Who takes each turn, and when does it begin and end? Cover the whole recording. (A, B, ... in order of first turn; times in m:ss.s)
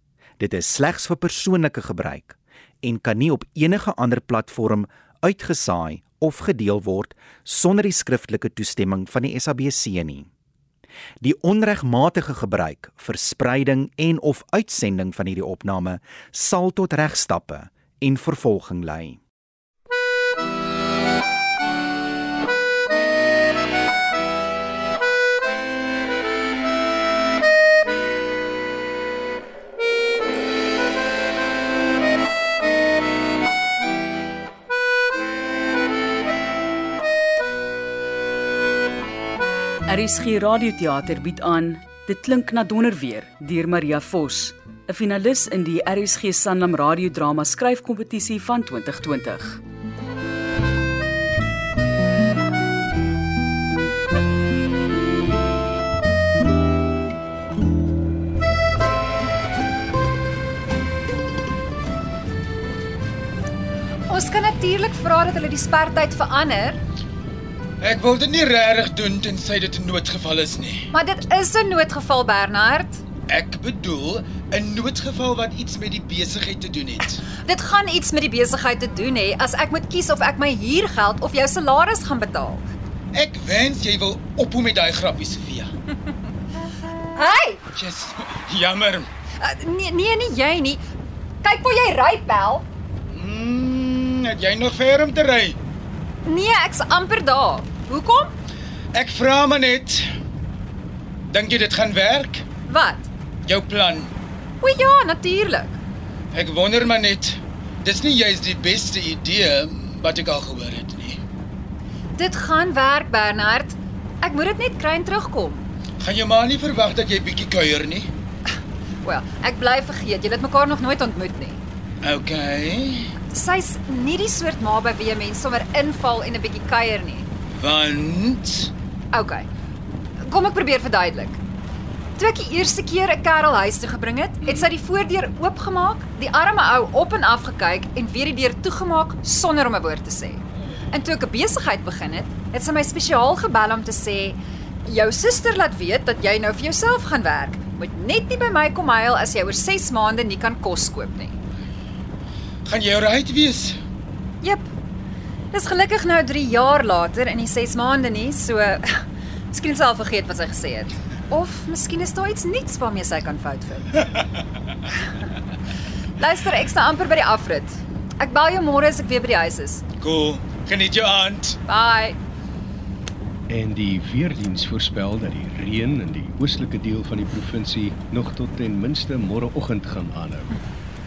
0:00.4-0:10.3 A
0:11.2-0:19.2 A
0:39.9-0:49.6 B
1:04.1-1:06.8 C
1:07.8-1:10.9 D
1:10.9-1:13.0 C
1:13.3-1:17.2 D
1:17.2-1:22.7 C
1:23.1-1:25.7 D
1:27.2-1:27.6 C
1:27.8-1:29.1 D
1:29.4-1:30.8 C
1:31.4-1:32.7 C
1:33.1-1:35.6 D
1:36.2-1:38.4 C
1:38.9-1:40.1 D
1:41.3-1:42.4 D
1:42.7-1:43.1 C
1:43.5-1:44.1 D
1:44.6-1:45.8 C
1:46.3-1:51.2 D
1:52.2-1:55.7 C
1:56.0-1:58.1 D
1:59.0-2:01.6 C
2:02.0-2:03.1 D
2:03.3-2:07.3 C
2:07.6-2:08.7 D
2:09.1-2:09.5 C
2:10.2-2:11.4 C
2:12.2-2:31.4 C
2:32.6-2:33.8 D
2:34.4-2:34.7 C
2:35.5-2:44.1 C
2:46.2-2:49.8 C
2:50.0-2:51.6 D
2:51.7-2:52.2 C
2:53.5-3:00.6 E